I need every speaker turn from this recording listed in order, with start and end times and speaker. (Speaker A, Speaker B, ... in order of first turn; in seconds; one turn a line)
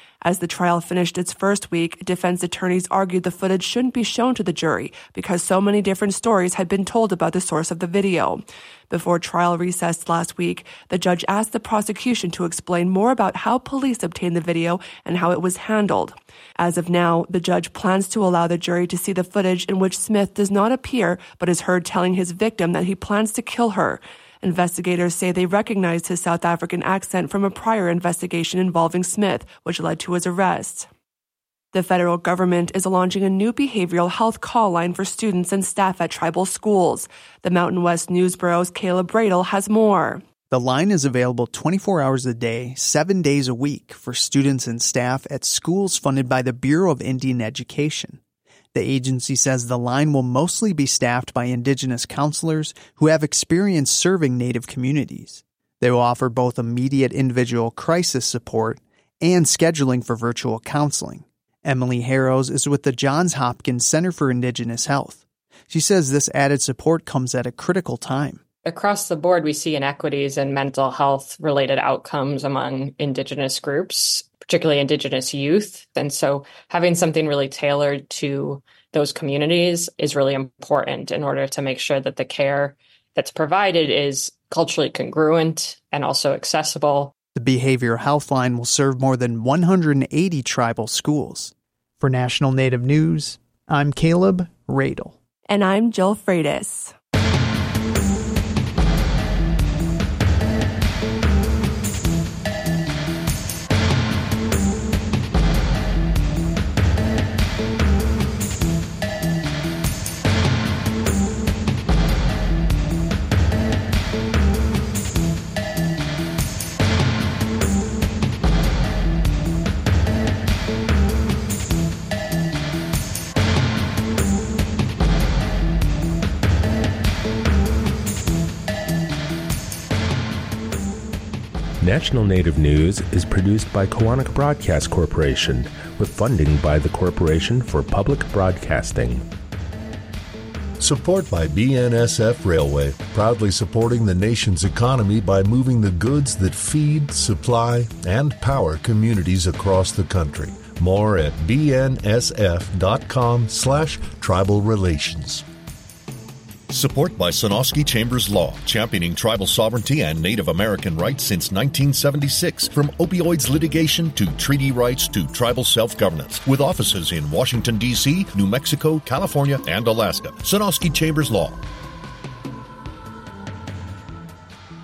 Speaker A: 0.2-30.9
Speaker A: 31.7-40.2
Speaker B: 40.5-48.2
Speaker B: 48.7-68.4
Speaker C: 68.7-87.1
Speaker B: 87.3-95.2
Speaker A: 95.5-96.9
Speaker D: 131.8-139.2
Speaker E: 140.8-155.4
Speaker E: 156.7-171.6